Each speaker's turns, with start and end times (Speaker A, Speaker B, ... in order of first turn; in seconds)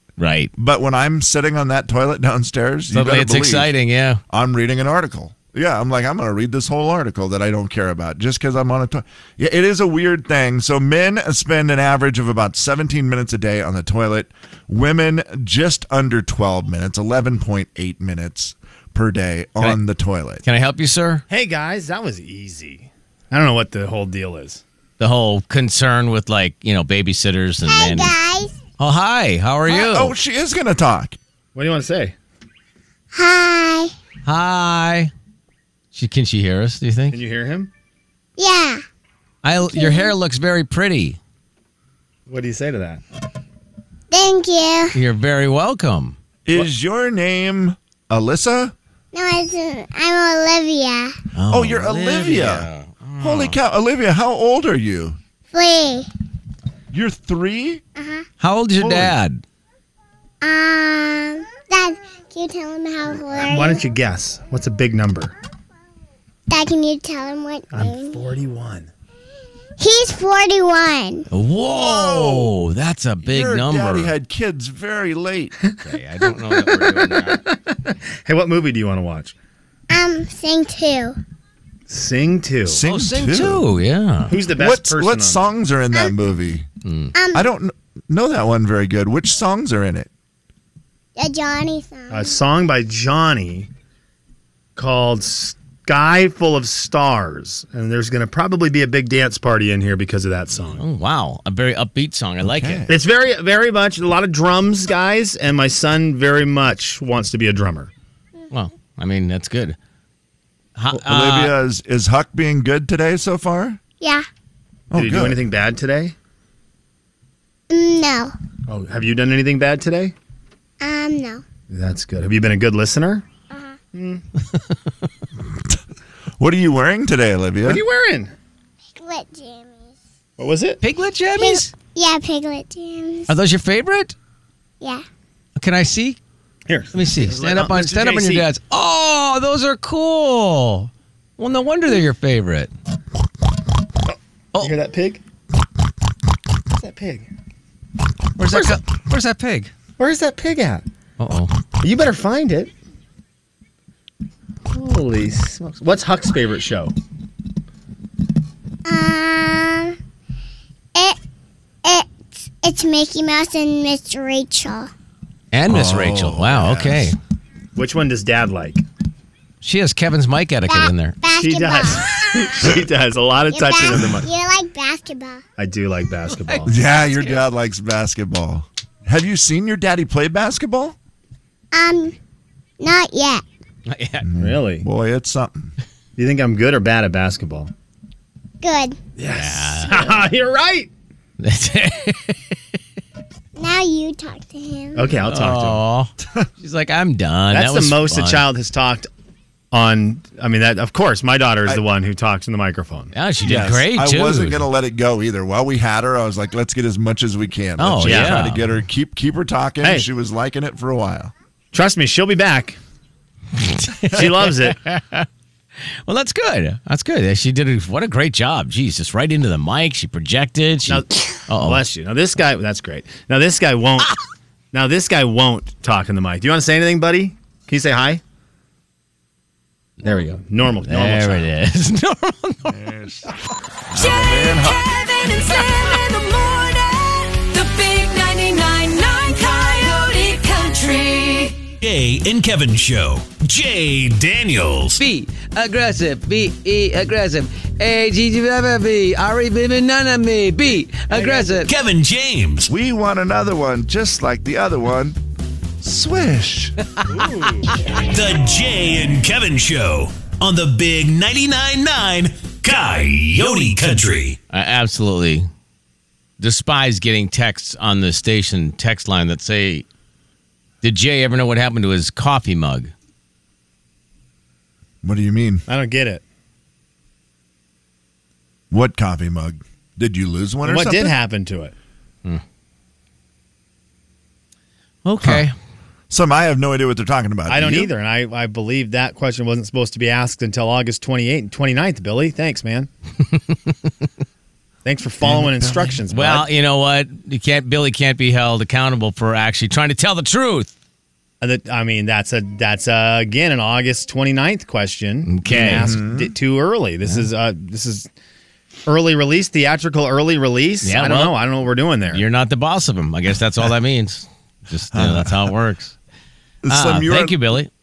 Speaker A: 0.2-0.5, 2.9-4.2, 20.4-21.2, 25.0-28.1, 28.8-30.1, 34.2-35.1, 35.9-37.2, 39.4-41.2, 44.9-46.1, 51.3-53.5, 58.4-59.4, 71.3-74.1, 75.8-77.4, 82.9-84.3, 86.8-87.1, 100.6-102.8, 108.5-109.8, 110.8-111.5, 130.8-131.7, 133.3-134.1, 135.6-136.2, 136.9-142.7, 148.4-149.7, 151.2-151.5, 165.5-167.2, 169.6-171.2, 176.3-177.4, 183.9-184.3, 189.3-190.2, 191.4-192.4, 195.3-198.4, 203.1-204.6, 207.8-208.6, 213.7-215.2, 216.1-221.8, 230.8-232.8, 245.0-251.7, 264.5-265.5, 266.4-269.8, 270.8-272.9, 285.0-285.5, 296.1-300.7, 305.3-305.9, 310.8-311.4, 312.1-315.9, 316.7-317.7
Speaker B: 0.6-3.7, 4.3-20.4, 29.7-31.2, 46.5-48.7, 51.5-55.2, 56.9-57.8, 58.8-59.1, 71.7-72.6, 73.2-75.5, 82.6-83.6, 84.5-86.7, 87.3-90.1, 102.4-102.9, 110.9-113.8, 114.9-115.4, 126.4-127.8, 165.7-167.1, 176.7-181.0, 184.2-185.7, 203.4-211.3, 232.7-233.3, 233.9-234.8, 252.7-255.2, 255.8-256.8, 275.0-275.6, 278.7-281.1, 285.2-285.4, 286.1-287.9, 295.2-296.0, 305.7-306.3, 314.9-315.5, 316.6-317.4
Speaker C: 21.3-24.6, 31.5-32.1, 37.1-37.7, 42.3-43.0, 63.4-65.3, 67.7-68.9, 76.5-79.3, 81.9-82.8, 84.3-85.4, 92.1-93.7, 94.8-100.8, 102.9-107.9, 114.9-116.1, 118.7-120.1, 121.7-123.2, 123.9-124.2, 127.6-128.3, 130.4-130.8, 136.7-138.5, 144.6-145.2, 146.7-147.3, 148.5-148.8, 150.0-150.8, 151.8-152.7, 154.7-156.9, 167.8-168.8, 171.4-174.2, 175.6-176.8, 184.4-184.8, 186.2-187.7, 189.2-190.9, 194.9-195.8, 197.5-199.1, 199.7-203.1, 208.0-208.4, 209.8-210.1, 211.7-212.8, 214.1-214.8, 220.9-224.2, 224.7-228.2, 230.0-231.5, 251.1-251.4, 257.1-257.7, 275.7-276.2, 280.6-281.7, 287.5-292.9, 294.8-296.5, 301.4-308.1, 308.9-312.2
Speaker D: 27.6-28.6, 33.1-33.9, 38.4-38.8, 39.7-40.1, 44.1-44.9, 49.1-51.2, 55.5-56.1, 58.0-58.2, 60.4-63.8, 66.5-68.2, 69.8-71.2, 79.9-81.2, 87.2-87.5, 91.2-92.3, 114.0-114.3, 117.7-118.3, 120.8-121.4, 123.5-123.8, 128.9-129.9, 131.3-133.3, 158.8-159.9, 161.8-164.9, 170.7-172.2, 173.5-175.4, 181.7-182.2, 182.8-183.4, 188.6-189.0, 193.6-195.1
Speaker E: 233.9-241.7
Speaker F: 241.8-245.0, 251.5-252.7, 258.1-264.4